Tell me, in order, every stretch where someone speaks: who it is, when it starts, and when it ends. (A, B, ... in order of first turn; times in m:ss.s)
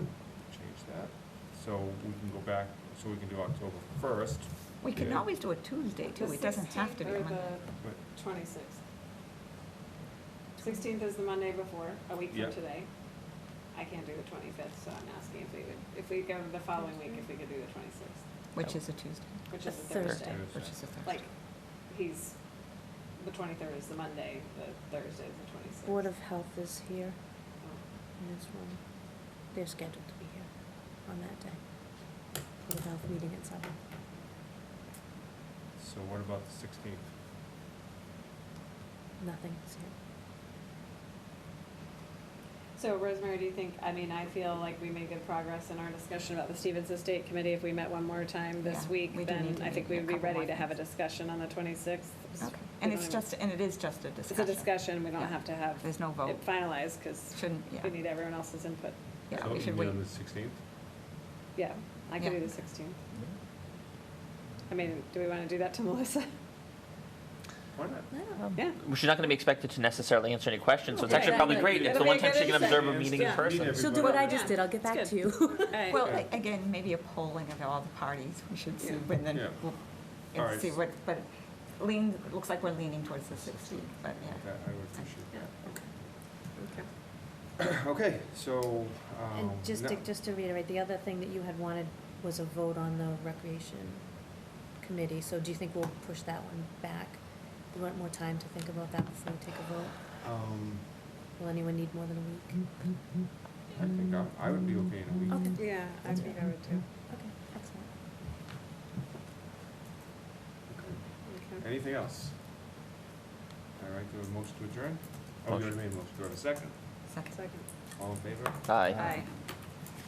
0:00.4-0:05.3 A
0:04.8-0:07.6 B
0:06.1-0:08.8 C
0:10.6-0:10.8 D
0:10.6-0:13.1 C
0:13.7-0:18.2 C
0:16.8-0:17.2 D
0:18.5-0:19.4 B
0:19.5-0:22.4 C
0:19.6-0:20.4 D
0:20.1-0:20.8 A
0:20.6-0:21.1 B
0:23.2-0:26.1 C
0:25.9-0:27.5 D
0:28.2-0:33.8 D
0:35.8-0:37.2 A
0:39.2-0:39.9 D
0:42.8-0:53.4 C
0:48.6-0:50.7 B
0:52.4-0:57.9 B
0:54.3-0:59.0 C
0:59.3-1:00.0 B
0:59.3-1:00.6 A
1:01.6-1:03.0 C
1:04.7-1:06.3 C
1:07.7-1:08.1 A
1:08.1-1:08.5 D
1:08.4-1:13.9 E
1:11.0-1:12.0 D
1:11.0-1:16.0 C
1:11.5-1:14.6 A
1:13.7-1:15.9 D
1:15.9-1:25.0 B
1:16.0-1:16.3 A
1:18.8-1:19.0 C
1:19.3-1:20.8 A
1:23.4-1:26.2 A
1:26.5-1:26.9 C
1:27.6-1:30.1 A
1:29.3-1:40.2 D
1:40.2-1:40.9 A
1:41.4-1:42.9 D
1:43.7-1:45.7 A
1:45.3-1:47.9 D
1:45.5-1:46.9 C
1:50.7-1:52.6 A
1:51.3-1:51.6 C
1:53.8-1:56.8 A
1:57.1-1:57.4 B
1:57.3-1:57.7 C
1:58.0-1:59.2 A
1:58.7-1:59.0 E
1:58.9-1:59.3 C